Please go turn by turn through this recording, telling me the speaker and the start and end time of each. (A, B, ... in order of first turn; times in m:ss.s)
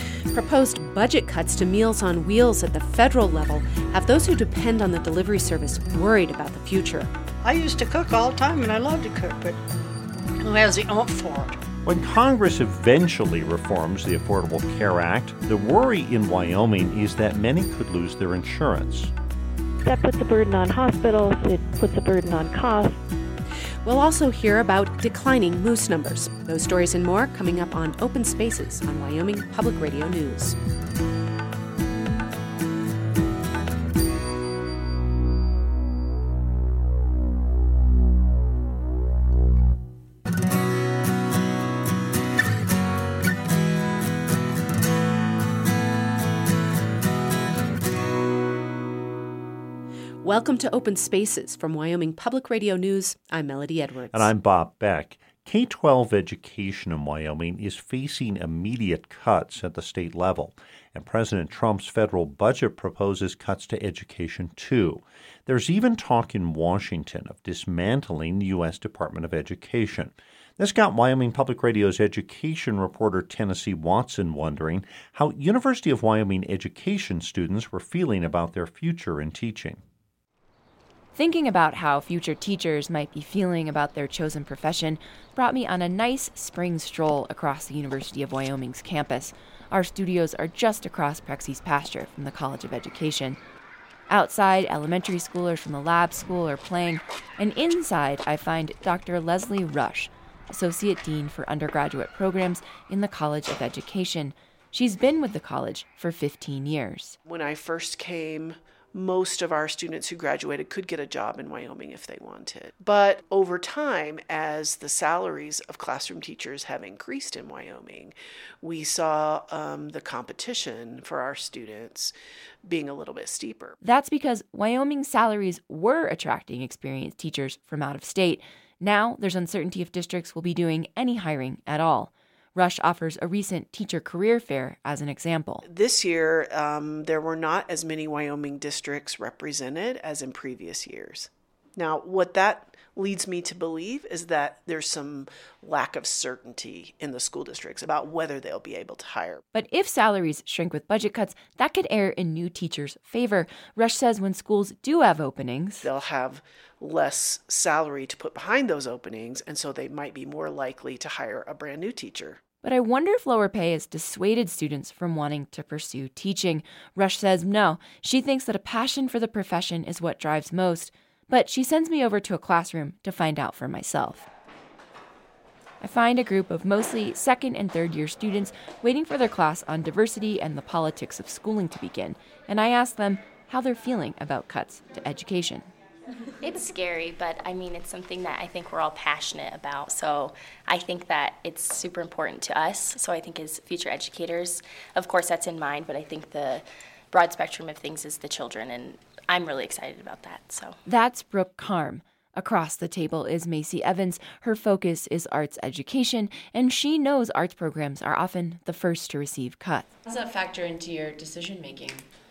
0:00.3-0:07.1 A
0:07.4-0:09.6 B
0:10.4-0:11.6 B
0:11.8-0:19.1 C
0:19.8-0:23.0 D
0:23.8-0:30.6 A
0:50.2-0:54.3 A
0:54.1-1:19.8 C
1:21.2-1:33.4 E
1:34.1-1:47.2 E
1:47.3-2:02.1 F
2:02.6-2:03.8 F
2:03.8-2:15.6 E
2:15.6-2:29.4 F
2:29.5-2:35.8 E
2:35.8-2:42.4 F
2:42.6-2:54.3 E
2:55.8-3:05.7 E
3:06.4-3:20.8 G
3:20.9-3:29.9 E
3:30.1-3:32.0 H